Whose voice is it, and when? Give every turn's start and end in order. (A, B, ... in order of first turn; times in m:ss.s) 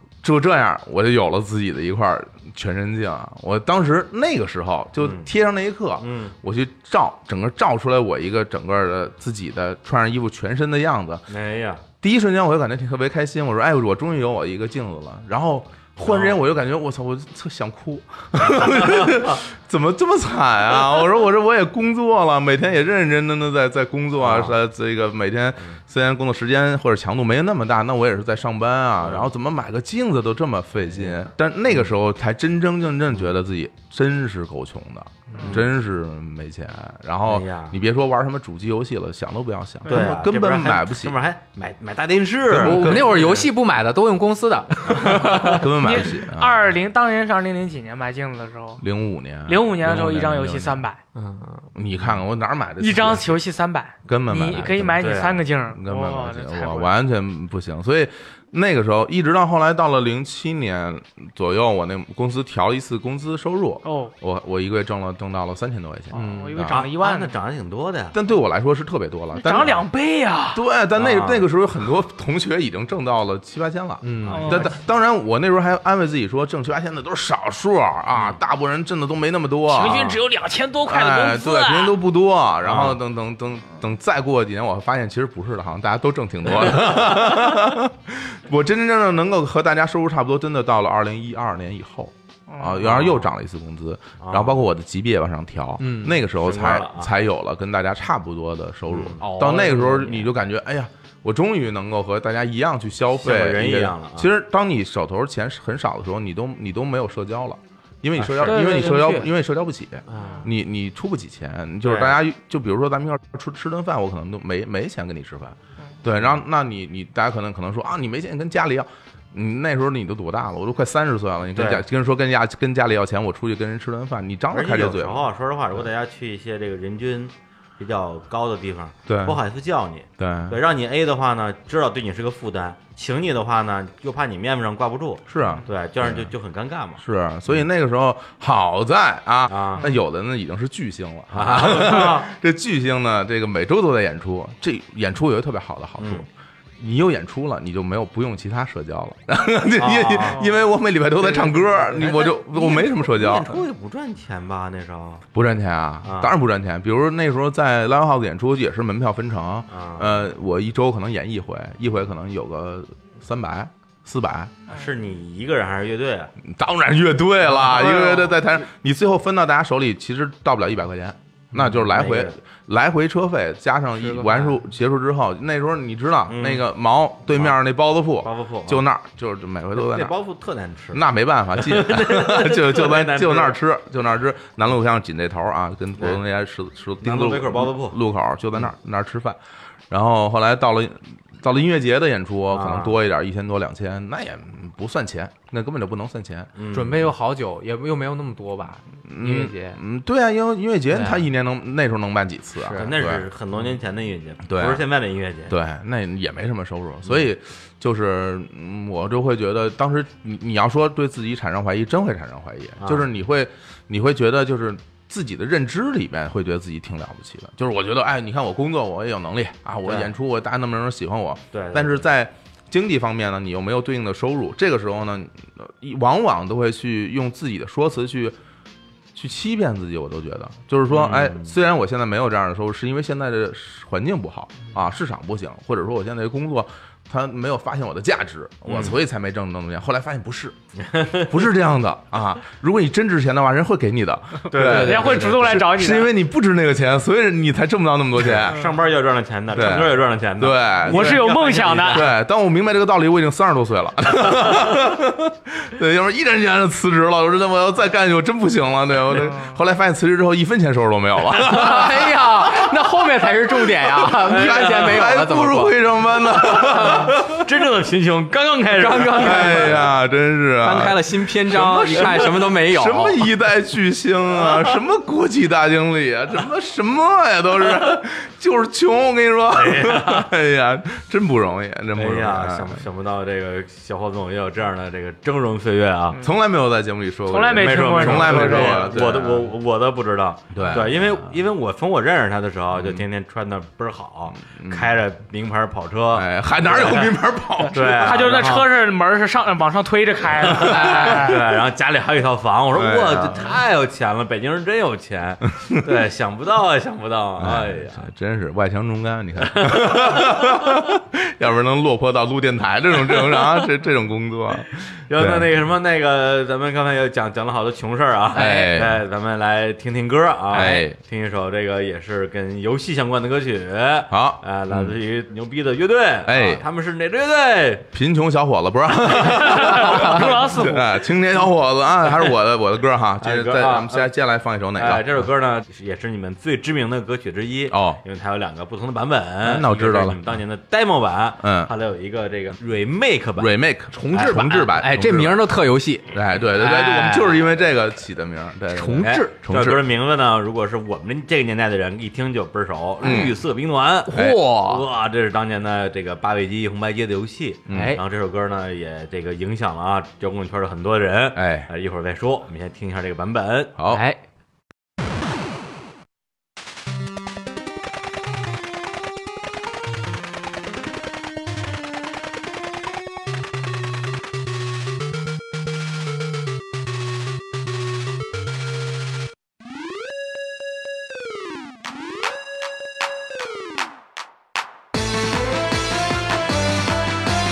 0:00.2-0:11.3 A
0:05.0-0:05.3 B
0:06.0-0:06.3 B
0:11.3-0:11.8 B
0:12.0-0:41.2 A
0:16.0-0:16.4 B
0:19.0-0:19.3 B
0:24.2-0:24.5 B
0:29.0-0:29.3 B
0:30.8-0:31.9 B
0:35.4-0:35.7 B
0:37.2-0:37.8 B
0:39.8-0:40.2 C
0:39.9-0:43.4 B
0:42.5-0:43.4 A
0:42.6-0:45.6 D
0:45.2-0:46.6 A
0:45.2-0:48.8 C
0:48.8-0:50.8 A
0:49.4-0:51.0 C
0:51.1-0:51.7 D
0:51.7-0:53.4 A
0:52.8-0:57.0 C
0:54.1-1:06.8 A
0:55.0-0:55.4 B
1:03.8-1:04.1 C
1:06.1-1:06.6 D
1:06.1-1:07.4 C
1:06.7-1:08.2 B
1:08.1-1:09.8 A
1:09.3-1:10.6 C
1:10.5-1:20.2 A
1:11.0-1:11.4 B
1:14.0-1:14.6 D
1:14.2-1:14.7 B
1:14.3-1:14.7 C
1:18.1-1:18.4 B
1:19.7-1:21.9 C
1:19.9-1:20.2 B
1:20.8-2:05.9 A
1:22.6-1:23.0 B
1:32.5-1:32.9 C
1:32.8-1:33.3 B
1:34.2-1:34.6 B
1:35.8-1:36.2 D
1:36.3-1:37.1 B
1:38.9-1:40.3 B
1:43.2-1:44.3 B
1:48.2-1:48.7 B
1:48.4-1:49.2 C
1:48.8-1:49.3 D
1:50.1-1:50.5 D
1:50.2-1:50.4 C
1:51.8-1:52.2 B
2:01.5-2:01.8 B
2:04.5-2:17.6 B
2:09.1-2:09.4 A
2:10.2-2:10.6 A
2:15.3-2:16.3 A
2:17.0-2:26.3 A
2:19.5-2:19.9 B
2:21.3-2:22.3 B
2:26.0-2:26.2 B
2:26.8-2:33.6 A
2:29.8-2:30.4 B
2:30.2-2:30.5 C
2:31.2-2:35.2 B
2:35.3-2:44.5 A
2:36.0-2:36.3 B
2:39.7-2:40.2 B
2:44.7-2:46.3 B
2:46.4-3:00.1 A
2:47.9-2:48.3 C
2:51.6-2:51.8 D
2:51.9-2:52.3 B
2:54.0-2:54.6 D
2:56.3-2:56.6 B
2:58.2-2:58.8 B
2:59.7-3:01.0 B
3:00.9-3:09.4 A
3:01.5-3:03.6 B
3:07.0-3:08.0 B
3:09.9-3:16.5 A
3:12.5-3:13.0 B
3:16.6-3:17.1 B
3:16.7-3:19.8 D
3:19.1-3:23.2 A
3:20.9-3:21.2 D
3:22.6-3:22.9 D
3:22.7-3:25.5 B
3:24.4-3:24.9 A
3:25.5-3:48.4 A
3:32.8-3:33.0 B
3:39.8-3:40.1 B
3:41.5-3:42.0 B
3:49.1-4:00.6 A
3:50.9-3:51.5 B
3:58.6-3:59.0 B
4:00.8-4:01.4 B
4:01.2-4:08.6 A
4:04.5-4:05.5 B
4:04.6-4:06.1 C
4:04.7-4:05.2 D
4:08.4-4:12.1 B
4:09.5-4:11.3 A
4:10.8-4:12.1 C
4:11.9-4:22.7 A
4:19.1-4:19.6 C
4:21.4-4:25.8 D
4:24.0-4:27.2 A
4:24.2-4:25.1 B
4:26.4-4:27.2 D
4:26.6-4:29.9 B
4:28.7-4:29.9 D
4:29.2-4:42.8 A
4:30.6-4:33.3 D
4:39.5-4:40.3 B
4:41.9-4:46.2 B
4:46.2-4:49.5 A
4:47.3-4:49.0 C
4:47.5-4:57.2 B
4:50.5-4:51.3 A
4:52.7-4:53.0 A
4:54.4-4:55.0 A
4:56.1-4:58.4 A
4:57.7-4:58.7 B
4:57.8-5:01.6 C
5:00.4-5:08.1 B
5:00.6-5:01.0 A
5:02.7-5:03.5 A
5:07.4-5:15.5 A
5:09.4-5:10.4 B
5:13.1-5:13.5 B
5:15.1-5:27.9 B
5:18.3-5:19.0 A
5:18.3-5:18.8 D
5:20.5-5:21.0 A
5:20.5-5:20.8 D
5:24.1-5:25.0 A
5:26.2-5:26.6 A
5:27.9-5:35.3 A
5:29.2-5:31.0 C
5:33.2-5:34.1 B
5:34.8-5:43.5 B
5:37.7-5:38.0 A
5:39.4-5:40.2 A
5:41.4-5:41.7 A
5:43.4-5:45.4 A
5:43.9-5:47.4 D
5:46.1-5:49.9 A
5:48.7-5:49.3 D
5:49.0-6:03.7 B
5:53.0-5:53.4 A
5:53.0-5:53.3 D
5:54.1-5:54.8 D
5:54.1-5:54.6 A
5:57.7-5:58.0 A
5:57.7-5:58.0 D
6:01.3-6:01.7 A
6:03.8-6:04.0 A
6:03.9-6:04.2 D